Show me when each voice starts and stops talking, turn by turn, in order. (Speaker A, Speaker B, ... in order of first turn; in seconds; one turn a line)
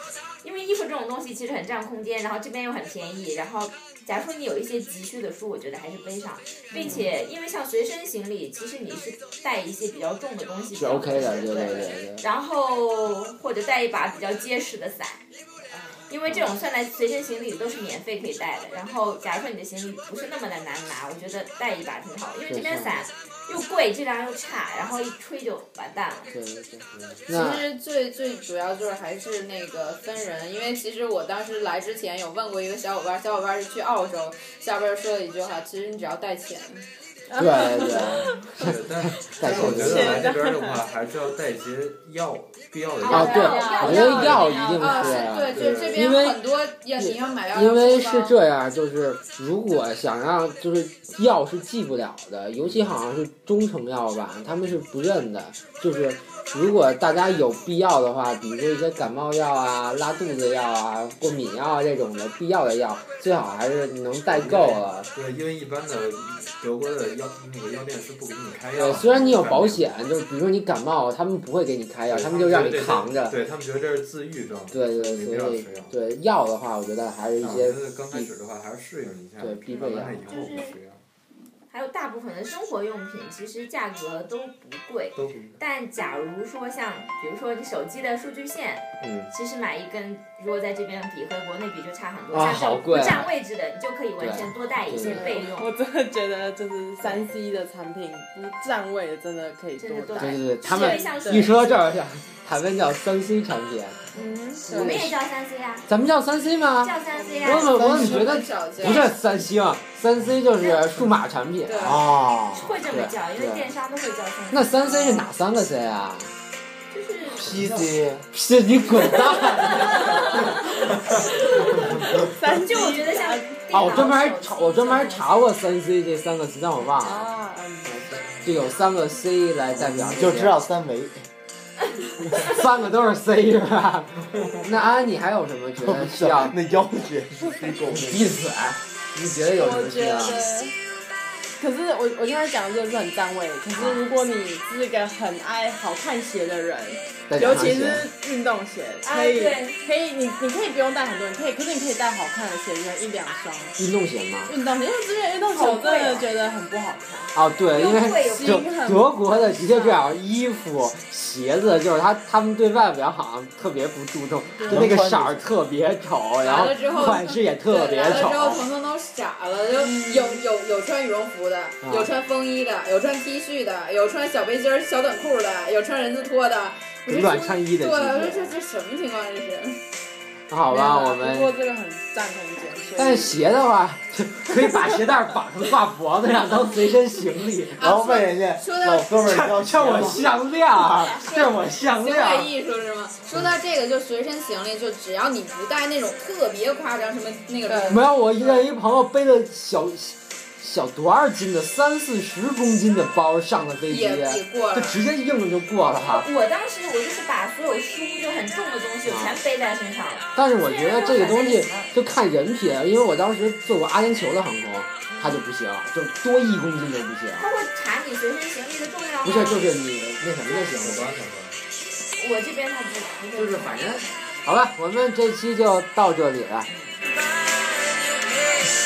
Speaker A: 0.4-15.2
Speaker B: 6.7-7.1
Speaker C: 10.7-12.2
Speaker A: 16.0-26.3
Speaker C: 16.3-16.6
Speaker C: 22.5-23.0
Speaker C: 26.3-27.6
Speaker D: 26.9-27.2
Speaker E: 27.3-36.8
Speaker B: 37.3-38.5
Speaker C: 37.4-40.2
Speaker D: 38.0-43.4
Speaker B: 39.5-40.8
Speaker A: 43.0-45.4
Speaker C: 43.1-46.4
Speaker B: 43.1-44.3
Speaker E: 43.3-48.4
Speaker D: 45.5-46.0
Speaker C: 47.0-65.1
Speaker D: 64.3-69.9
Speaker C: 68.8-73.4
Speaker D: 72.1-75.9
Speaker C: 74.7-78.3
Speaker D: 77.4-81.0
Speaker C: 79.4-80.3
Speaker A: 80.3-80.8
Speaker A: 81.7-95.7
Speaker D: 85.2-85.6
Speaker C: 89.0-89.3
Speaker C: 92.3-93.3
Speaker C: 94.2-95.5
Speaker B: 95.0-101.5
Speaker A: 97.0-97.3
Speaker A: 99.8-101.5
Speaker C: 100.2-104.0
Speaker B: 104.1-105.1
Speaker A: 104.7-105.9
Speaker C: 104.8-105.1
Speaker C: 105.9-112.1
Speaker A: 106.8-108.1
Speaker B: 107.2-107.5
Speaker E: 107.7-109.1
Speaker F: 107.7-108.3
Speaker A: 110.6-110.9
Speaker E: 111.7-112.1
Speaker F: 111.8-112.7
Speaker A: 112.5-115.3
Speaker C: 112.9-113.7
Speaker C: 114.5-116.3
Speaker A: 116.9-117.5
Speaker F: 117.3-118.3
Speaker D: 117.4-117.9
Speaker C: 118.3-120.8
Speaker A: 119.0-125.2
Speaker B: 121.6-124.1
Speaker C: 123.7-127.3
Speaker B: 127.0-128.0
Speaker C: 127.9-130.6
Speaker F: 129.8-131.3
Speaker C: 132.3-136.6
Speaker F: 135.8-138.3
Speaker C: 137.9-140.4
Speaker B: 139.5-140.8
Speaker B: 141.6-153.8
Speaker C: 143.8-144.0
Speaker C: 147.3-148.1
Speaker A: 149.1-149.8
Speaker C: 153.8-154.5
Speaker B: 154.5-160.1
Speaker A: 155.5-156.2
Speaker C: 157.3-168.7
Speaker A: 157.7-158.6
Speaker B: 164.6-164.9
Speaker F: 164.7-165.5
Speaker E: 166.4-179.8
Speaker B: 169.7-170.4
Speaker C: 171.8-172.1
Speaker C: 177.1-178.6
Speaker C: 180.5-181.5
Speaker B: 180.7-183.4
Speaker C: 183.0-187.8
Speaker E: 187.8-189.2
Speaker F: 187.8-190.2
Speaker C: 189.3-192.5
Speaker E: 191.1-198.1
Speaker B: 197.7-198.6
Speaker C: 197.9-206.3
Speaker E: 203.9-205.0
Speaker A: 206.1-211.9
Speaker C: 209.1-209.4
Speaker C: 210.3-217.5
Speaker A: 217.4-219.7
Speaker C: 219.2-221.1
Speaker D: 220.8-221.6
Speaker A: 222.1-223.8
Speaker C: 223.3-226.7
Speaker A: 226.7-227.0